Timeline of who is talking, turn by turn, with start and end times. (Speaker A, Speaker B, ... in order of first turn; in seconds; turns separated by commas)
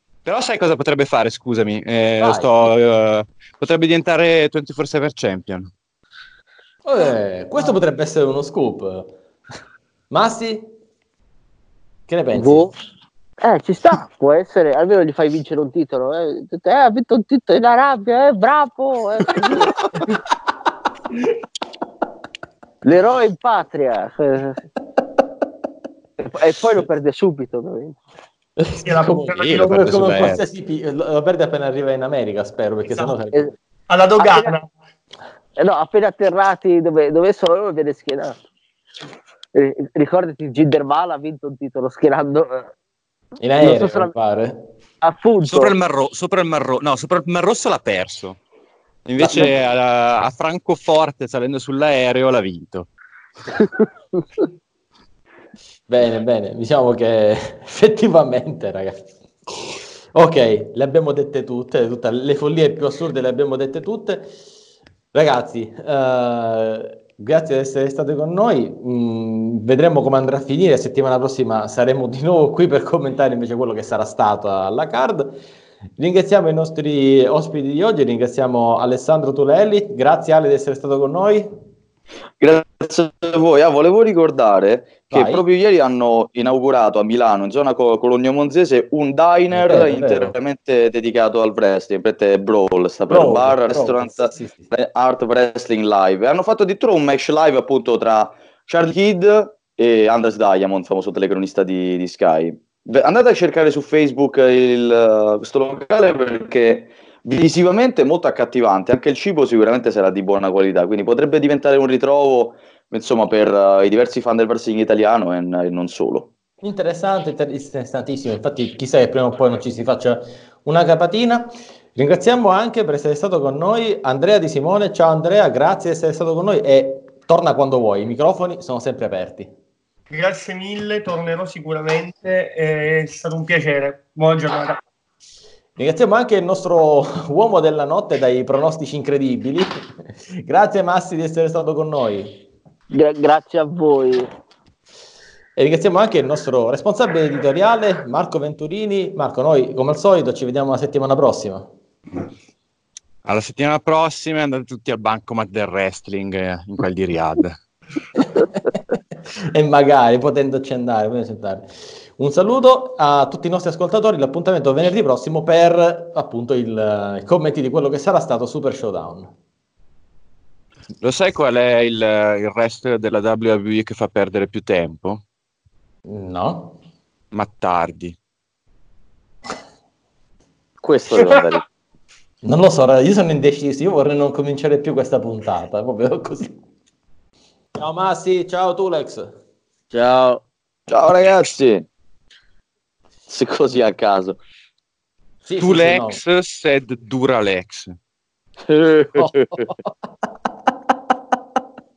Speaker A: 0.2-5.7, Speaker B: 2.2-2.5, Speaker B: 6.8-9.1, Speaker B: 10.1-10.7, Speaker B: 12.1-12.7, Speaker C: 12.3-12.7, Speaker C: 13.4-19.8, Speaker C: 22.8-24.6, Speaker C: 26.2-28.0, Speaker B: 28.6-33.5, Speaker D: 28.8-30.1, Speaker A: 29.3-30.4, Speaker D: 32.9-33.1, Speaker D: 33.9-34.7, Speaker C: 34.2-34.5, Speaker C: 35.6-38.4, Speaker C: 39.5-42.7, Speaker B: 43.4-44.7, Speaker C: 43.6-44.1, Speaker C: 45.0-45.7, Speaker A: 45.5-48.4, Speaker A: 49.1-52.9, Speaker C: 49.2-49.5, Speaker C: 53.6-53.9, Speaker B: 55.9-64.3, Speaker B: 65.1-75.3, Speaker B: 76.0-81.5, Speaker E: 82.4-116.3, Speaker B: 85.1-85.4, Speaker B: 89.5-90.3, Speaker B: 93.1-94.7, Speaker B: 116.6-129.5, Speaker D: 130.1-134.8, Speaker B: 135.8-139.7, Speaker B: 140.4-142.4, Speaker C: 142.9-144.3, Speaker B: 145.6-151.7, Speaker A: 153.2-157.6, Speaker B: 159.5-161.7, Speaker B: 162.2-169.3, Speaker A: 171.0-175.2, Speaker B: 176.1-176.8, Speaker A: 177.3-178.2, Speaker E: 180.8-181.6, Speaker B: 182.4-186.6, Speaker B: 187.8-189.3, Speaker C: 189.9-190.4, Speaker E: 190.9-191.9, Speaker E: 193.3-194.4, Speaker B: 195.4-196.2, Speaker A: 195.6-197.9, Speaker E: 198.7-199.7, Speaker B: 199.2-199.8